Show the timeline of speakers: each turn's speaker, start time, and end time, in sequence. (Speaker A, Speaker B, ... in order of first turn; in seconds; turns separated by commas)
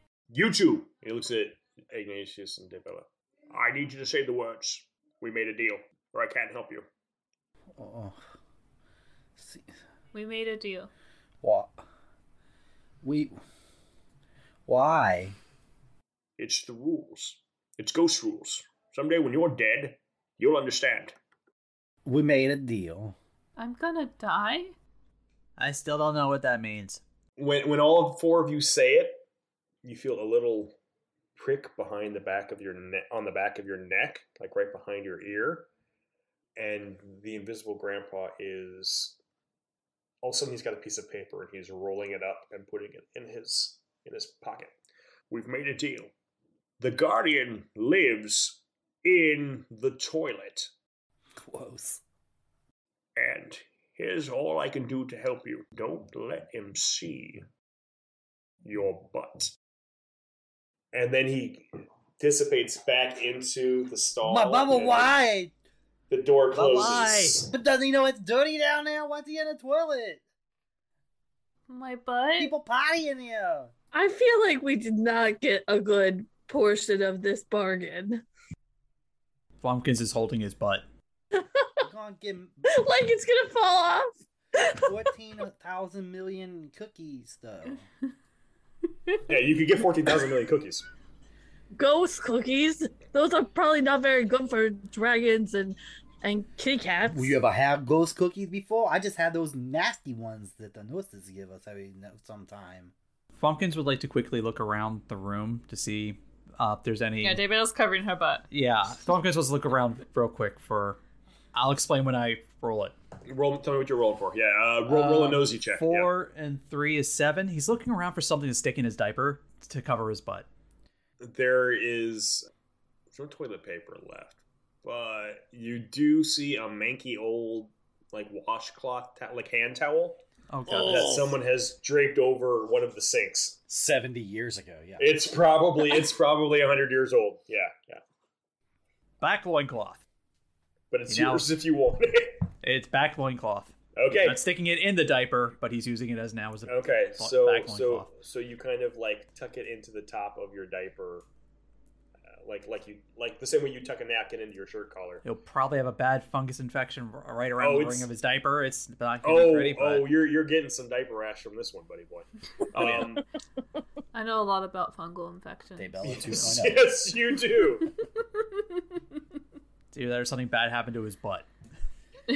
Speaker A: 0.3-6.9, Speaker B: 7.8-8.2, Speaker B: 9.4-9.7, Speaker C: 10.1-10.9, Speaker B: 11.4-11.8, Speaker B: 13.0-13.4, Speaker B: 14.7-15.4, Speaker A: 16.4-21.2, Speaker B: 22.1-23.2, Speaker C: 23.6-24.8, Speaker D: 25.6-27.0, Speaker A: 27.4-29.2, Speaker A: 29.8-30.8, Speaker A: 31.4-35.7, Speaker A: 36.6-39.2, Speaker A: 40.2-44.8, Speaker A: 45.3-46.1, Speaker A: 46.8-50.7, Speaker B: 51.4-52.0, Speaker A: 53.2-57.5, Speaker A: 58.6-59.5, Speaker A: 60.9-61.7, Speaker A: 62.2-65.1, Speaker B: 64.2-65.5, Speaker A: 66.1-67.5, Speaker D: 66.5-67.4, Speaker B: 67.5-70.2, Speaker C: 71.7-72.5, Speaker B: 72.4-73.7, Speaker E: 73.9-78.2, Speaker D: 79.6-80.8, Speaker E: 81.4-81.8, Speaker B: 81.8-82.7, Speaker E: 82.7-84.9, Speaker B: 84.8-87.9, Speaker A: 89.3-90.9, Speaker E: 91.8-97.3, Speaker B: 97.1-102.9, Speaker D: 103.3-107.4, Speaker C: 107.2-108.5, Speaker D: 108.5-111.0, Speaker D: 111.5-112.9, Speaker A: 113.3-116.1, Speaker D: 114.9-120.5, Speaker A: 121.2-122.5, Speaker A: 123.1-133.6, Speaker D: 130.5-131.4, Speaker B: 133.7-135.2, Speaker A: 135.0-138.0, Speaker D: 139.2-140.0, Speaker A: 140.9-142.5, Speaker D: 141.1-141.5, Speaker D: 142.6-148.1, Speaker A: 143.9-144.4, Speaker A: 146.7-151.3, Speaker A: 152.4-155.2, Speaker D: 155.2-160.1, Speaker A: 157.6-158.1, Speaker A: 159.2-163.2, Speaker D: 162.8-163.1, Speaker C: 164.1-166.3, Speaker B: 165.8-166.9, Speaker A: 166.1-167.9, Speaker D: 169.9-171.5